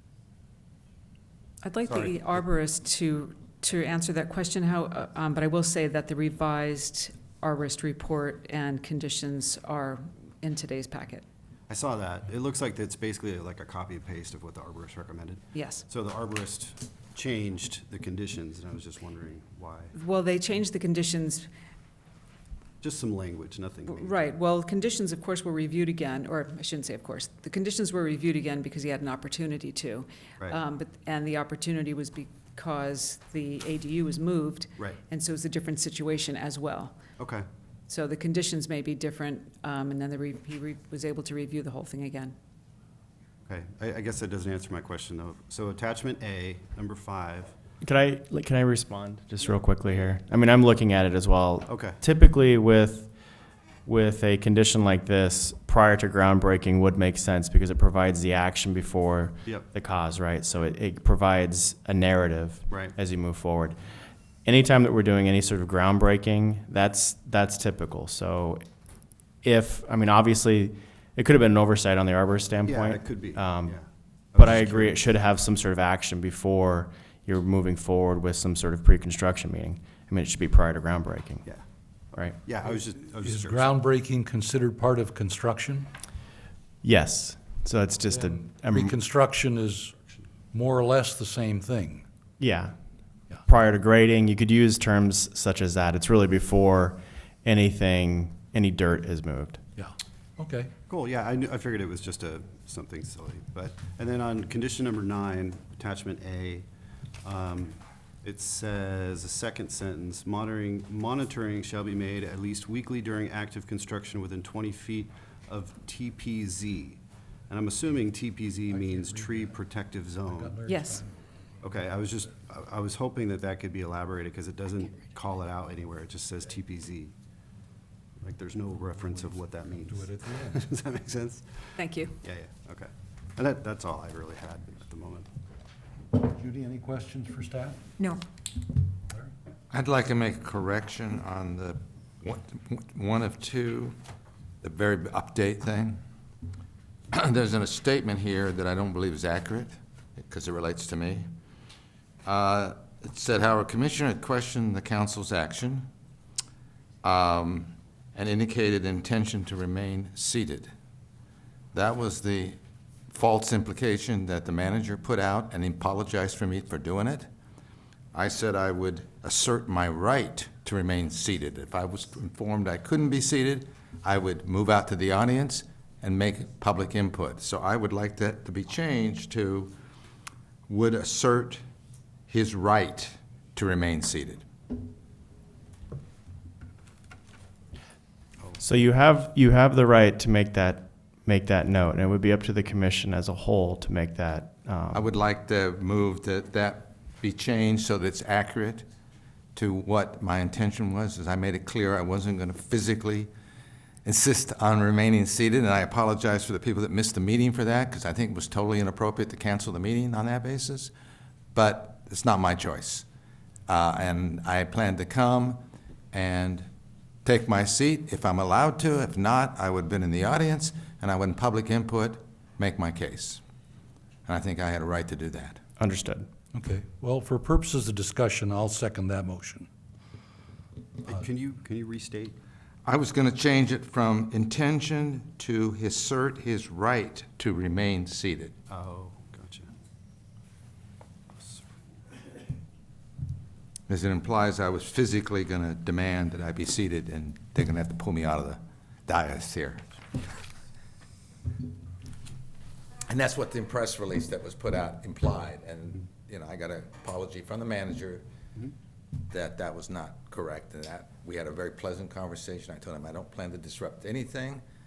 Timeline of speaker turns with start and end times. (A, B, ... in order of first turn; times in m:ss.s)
0:01.6-0:11.2 A
0:01.9-0:02.2 B
0:11.7-0:19.9 B
0:15.5-0:15.8 A
0:19.9-0:21.5 A
0:22.8-0:24.2 B
0:23.9-0:37.0 A
0:37.2-0:37.4 B
0:37.9-0:42.3 A
0:43.5-0:47.5 B
0:47.8-0:53.1 C
0:51.7-0:52.0 B
0:53.8-1:03.8 C
1:04.4-1:08.6 C
1:09.4-1:13.8 C
1:12.6-1:15.0 B
1:14.4-1:21.4 C
1:22.4-1:23.7 B
1:23.2-1:25.9 D
1:26.8-1:28.9 C
1:28.1-1:32.0 D
1:32.4-1:32.7 C
1:33.4-1:39.6 C
1:39.8-1:40.7 D
1:40.9-1:46.6 B
1:47.2-2:00.6 B
1:58.7-1:59.5 D
2:00.3-2:01.1 D
2:00.7-2:01.0 A
2:01.6-2:07.1 B
2:08.2-2:11.4 B
2:09.1-2:10.6 D
2:11.8-2:12.1 A
2:12.2-2:15.3 B
2:16.1-2:17.8 D
2:19.7-2:23.9 E
2:24.6-2:26.0 E
2:27.1-2:31.3 E
2:32.2-2:35.9 E
2:37.0-2:40.7 E
2:41.7-2:42.6 E
2:43.1-2:47.3 E
2:48.1-2:59.7 E
3:00.7-3:01.6 E
3:02.3-3:04.4 E
3:08.6-3:15.0 C
3:14.9-3:18.8 E
3:19.5-3:23.3 E
3:24.0-3:30.9 E
3:31.5-3:33.0 E
3:33.7-3:35.6 E
3:36.1-3:36.7 E
3:37.2-3:43.4 E
3:44.2-3:45.6 E
3:45.8-3:46.3 C
3:46.5-3:49.7 D
3:51.0-3:52.4 B
3:52.8-3:58.5 E
3:58.7-3:59.7 B
4:03.9-4:09.8 E
4:13.1-4:18.2 E
4:19.3-4:24.6 E